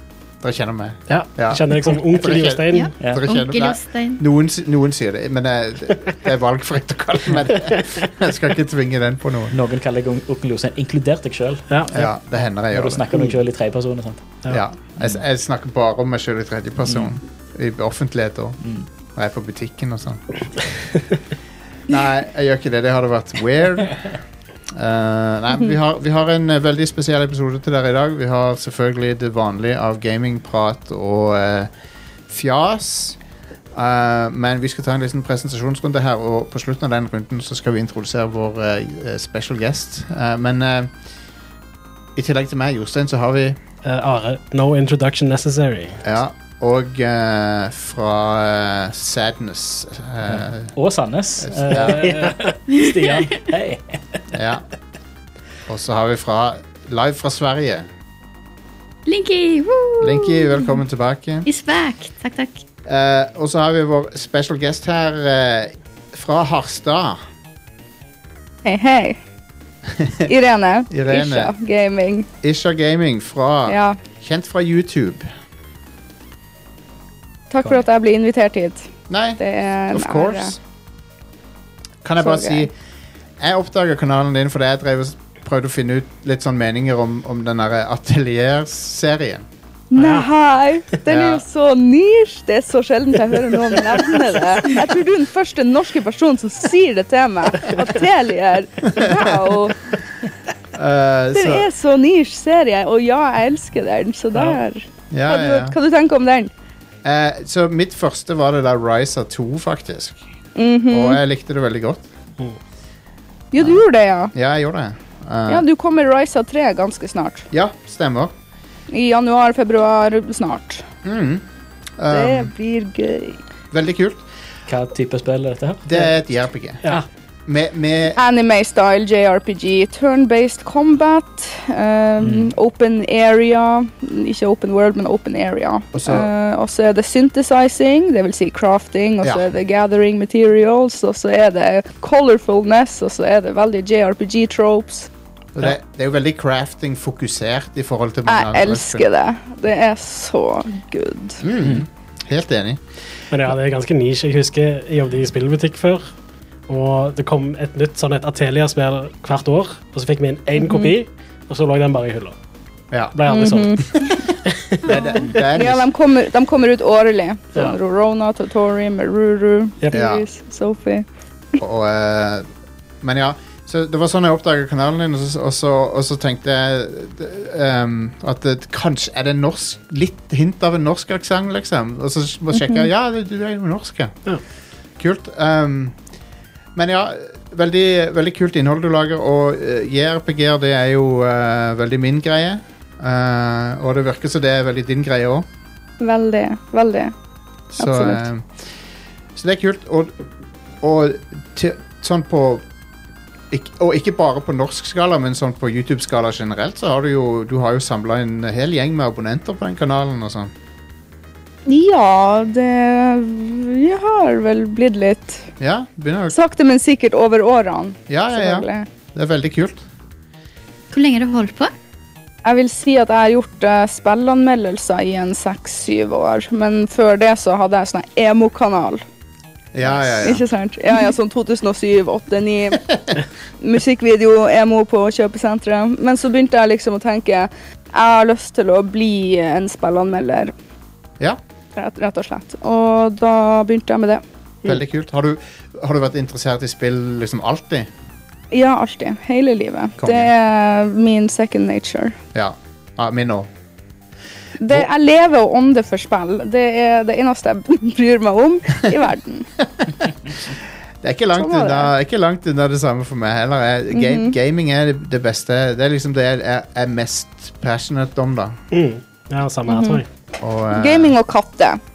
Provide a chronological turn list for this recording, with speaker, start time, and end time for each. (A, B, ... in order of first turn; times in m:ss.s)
0:00.4-0:09.6 A
0:01.1-0:02.9 B
0:02.7-0:04.2 C
0:09.5-0:12.1 D
0:11.9-0:13.0 A
0:12.7-0:14.2 D
0:14.5-0:18.6 A
0:16.9-0:17.1 D
0:19.2-0:20.2 A
0:21.9-0:24.1 A
0:24.7-0:31.7 A
0:32.3-0:33.2 A
0:33.7-0:40.9 A
0:42.2-0:43.6 A
0:43.8-0:46.0 B
0:46.0-0:50.7 A
0:50.3-0:54.2 D
0:51.4-0:52.1 A
0:52.0-0:52.5 B
0:52.7-0:53.1 C
0:54.3-0:54.6 A
0:55.7-0:57.9 A
0:59.0-1:00.7 C
1:00.0-1:01.5 A
1:01.4-1:02.6 C
1:02.8-1:07.2 A
1:08.6-1:09.2 E
1:09.9-1:10.3 A
1:10.2-1:12.3 E
1:10.9-1:11.5 A
1:12.4-1:15.3 A
1:13.7-1:14.0 E
1:17.5-1:20.5 E
1:19.1-1:19.4 A
1:19.9-1:20.6 A
1:22.0-1:22.7 A
1:22.2-1:22.7 E
1:23.4-1:29.4 A
1:29.9-1:39.8 E
1:30.0-1:30.2 B
1:31.1-1:31.4 A
1:40.7-1:41.7 A
1:41.3-1:46.5 E
1:45.1-1:45.8 A
1:47.0-1:50.2 A
1:50.6-1:51.2 E
1:50.9-1:52.0 A
1:53.5-1:54.3 E
1:54.3-1:55.6 A
1:55.5-1:57.5 E
1:57.5-1:58.3 A
1:58.9-2:00.8 E
2:01.0-2:01.4 A
2:02.0-2:02.5 A
2:02.1-2:03.4 E
2:03.7-2:04.2 A
2:04.7-2:05.9 D
2:05.8-2:06.8 A
2:07.5-2:08.2 A
2:08.2-2:25.1 E
2:12.2-2:12.5 D
2:15.9-2:16.3 A
2:25.5-2:29.1 A
2:28.3-2:31.4 E
2:31.4-2:32.8 A
2:33.3-2:36.0 B
2:36.7-2:42.3 B
2:40.6-2:40.9 E
2:42.9-2:43.2 A
2:43.1-2:44.9 B
2:43.3-2:43.9 E
2:43.9-2:44.2 A
2:44.8-2:45.9 A
2:45.4-2:51.0 E
2:49.9-2:50.2 A
2:51.6-2:52.4 A
2:53.0-3:04.1 A
3:05.0-3:06.0 A
3:06.7-3:15.4 A
3:16.0-3:17.1 E
3:17.8-3:18.6 A
3:17.8-3:18.2 E
3:19.3-3:20.1 A
3:20.8-3:22.6 A
3:23.5-3:30.5 A
3:31.6-3:35.5 E
3:35.6-3:36.4 A
3:36.3-3:38.8 E
3:38.1-3:39.8 A
3:40.9-3:41.7 C
3:42.4-3:49.0 E
3:49.7-3:50.4 A
3:50.2-3:52.8 E
3:53.6-4:00.5 E
4:01.8-4:04.2 E
4:04.6-4:07.9 A
4:08.5-4:12.2 E
4:10.0-4:10.3 A
4:12.3-4:13.5 A
4:14.6-4:19.5 E
4:20.4-4:28.6 A
4:21.4-4:21.9 E
4:23.9-4:24.4 E
4:28.7-4:30.0 B
4:29.7-4:30.0 E
4:30.4-4:31.1 A
4:30.7-4:31.8 E